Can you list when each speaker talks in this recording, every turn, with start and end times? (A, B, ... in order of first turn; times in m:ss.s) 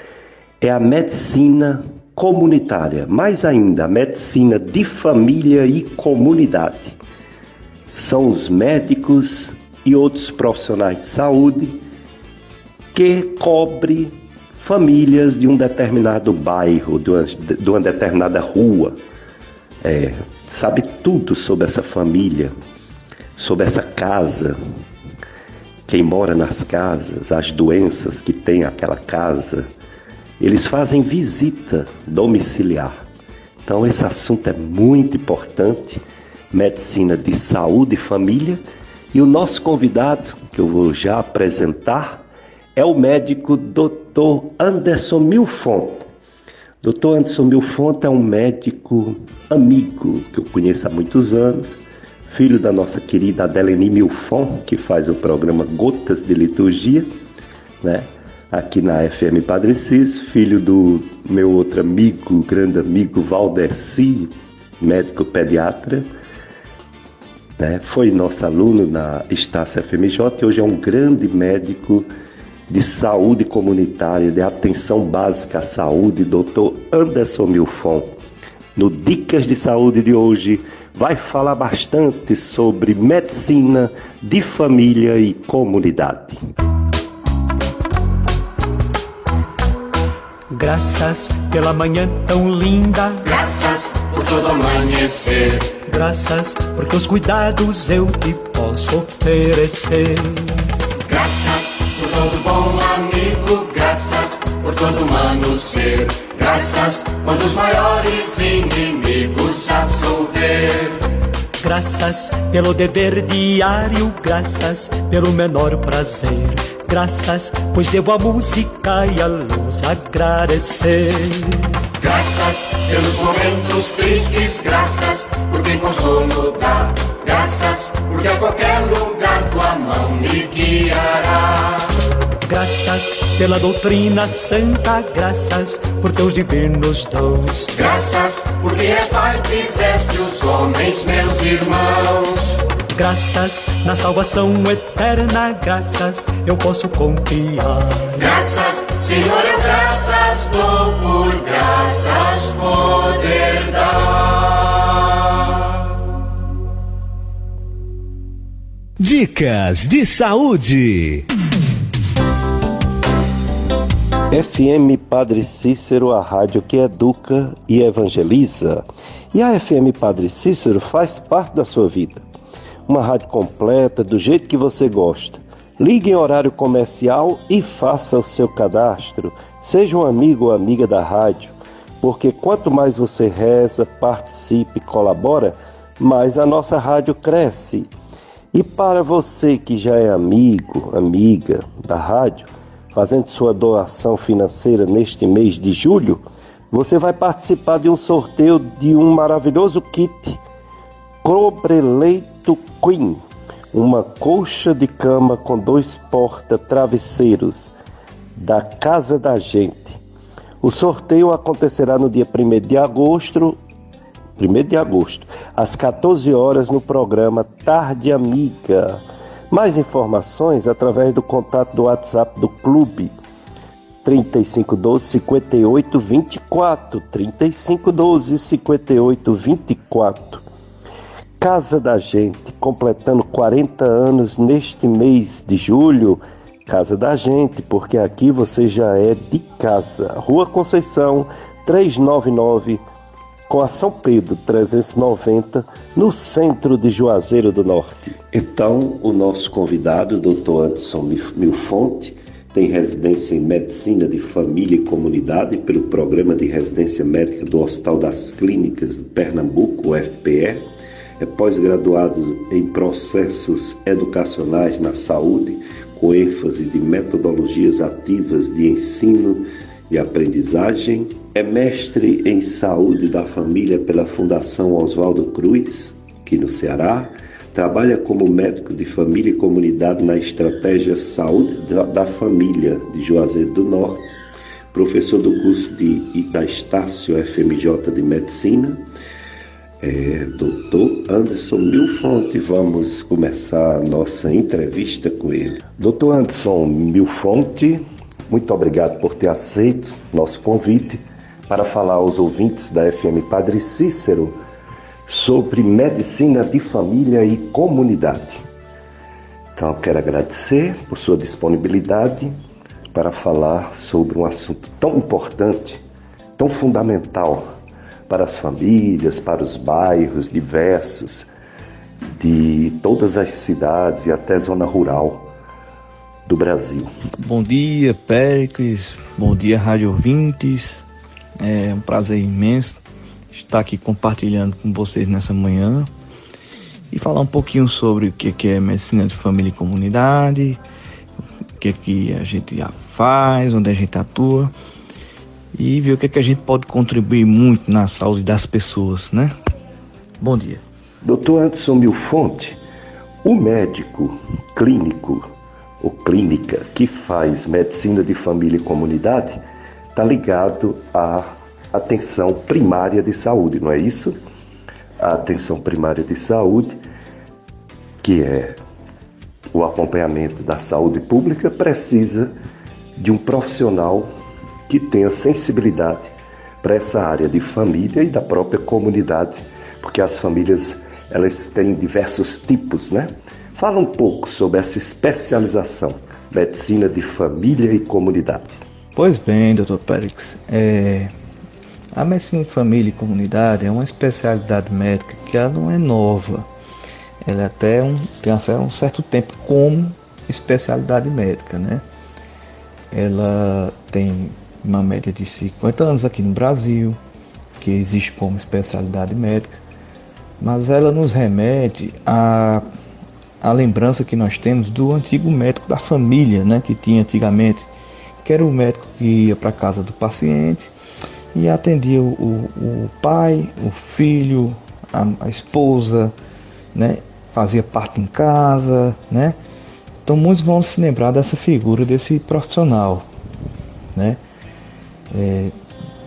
0:00.6-0:07.0 A
0:07.9-0:11.8 A
0:12.9-0:19.0 A
0:19.8-0:22.5 A
0:23.4-0:24.6 A
0:25.9-0:29.7 A
0:30.4-0:33.0 A
0:33.6-0:38.6 A
0:39.1-0:42.2 A
0:42.8-0:46.0 A
0:46.8-0:57.1 A
0:57.8-1:06.1 A
1:07.6-1:12.1 A
1:12.7-1:18.1 A
1:18.8-1:26.4 A
1:30.5-1:33.2 B
1:33.2-1:35.8 C
1:35.8-1:40.7 B
1:41.0-1:51.0 C
1:51.6-2:01.7 B
2:02.0-2:11.9 C
2:12.4-2:17.7 B
2:17.7-2:22.6 C
2:22.9-2:28.2 B
2:28.2-2:35.4 C
2:39.0-2:41.3 D
2:44.3-2:52.2 A
2:52.9-3:07.9 A
3:08.5-3:20.4 A
3:21.2-3:27.7 A
3:28.4-3:30.0 A
3:30.6-3:33.6 A
3:34.4-3:43.1 A
3:44.0-3:50.4 A
3:51.4-4:02.8 A
4:03.5-4:20.6 A
4:21.2-4:44.1 A
4:44.7-4:48.8 A
4:49.8-5:04.4 A
5:05.1-5:08.4 A
5:09.6-5:12.3 A
5:12.9-5:15.8 A
5:16.4-5:17.4 A
5:18.1-5:21.3 A
5:22.2-5:25.3 A
5:26.2-5:26.9 A
5:27.2-5:30.8 E
5:31.4-5:32.8 E
5:33.3-5:35.9 E
5:36.9-5:40.6 E
5:41.6-5:44.5 E
5:45.5-5:49.3 E
5:50.2-5:50.6 E
5:51.0-5:52.6 A
5:53.2-5:55.2 A
5:55.8-5:59.4 A
5:59.9-6:04.2 A
6:05.0-6:06.8 A
6:08.0-6:08.6 A
6:09.5-6:12.3 A
6:13.0-6:14.1 A
6:14.7-6:28.6 A
6:28.9-6:31.1 E
6:31.9-6:36.5 E
6:37.2-6:41.8 E
6:42.9-6:47.0 E
6:47.6-6:49.6 E
6:50.4-6:52.6 E
6:53.4-6:57.7 E
6:58.2-7:00.7 E
7:01.3-7:06.1 E
7:06.7-7:09.4 E
7:10.0-7:13.0 E
7:13.9-7:14.2 E
7:15.1-7:15.5 E